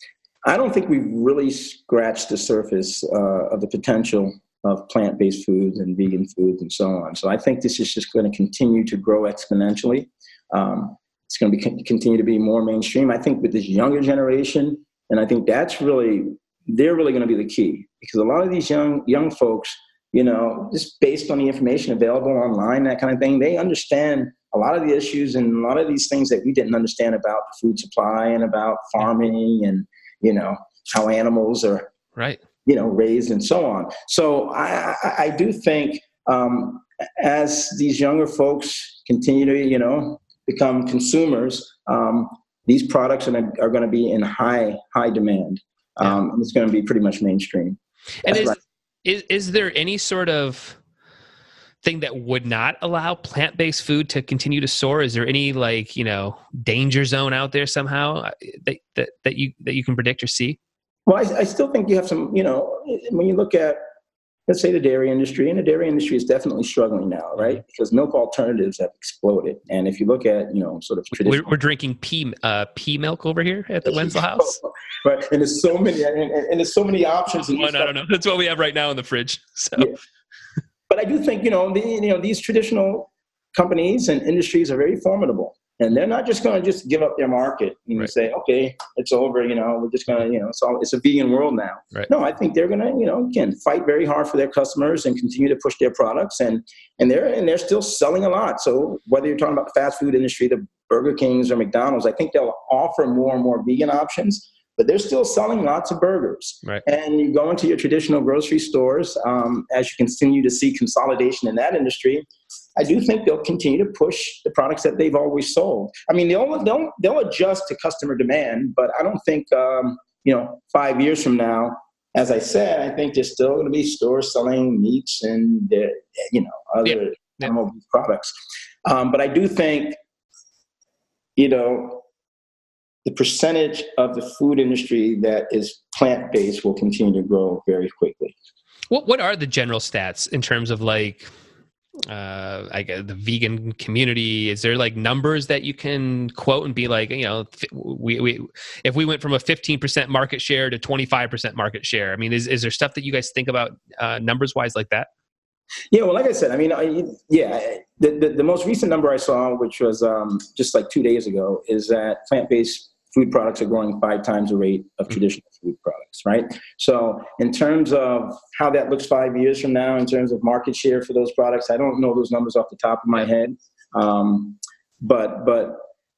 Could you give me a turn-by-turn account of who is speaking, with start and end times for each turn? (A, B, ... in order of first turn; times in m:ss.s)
0:00.4-0:31.9 A
0:32.2-0:32.4 B
0:32.7-0:48.6 A
0:48.2-0:50.8 B
0:51.8-1:00.6 B
1:01.1-1:03.8 A
1:04.5-1:11.5 A
1:11.2-1:14.6 B
1:13.8-1:17.9 A
1:17.5-1:20.0 B
1:20.9-1:52.2 A
1:52.8-2:08.3 A
2:06.8-2:07.5 B
2:08.8-2:10.0 A
2:11.4-2:12.0 A
2:13.0-2:18.4 A
2:18.9-2:21.3 B
2:22.1-2:35.1 B
2:35.9-2:55.8 A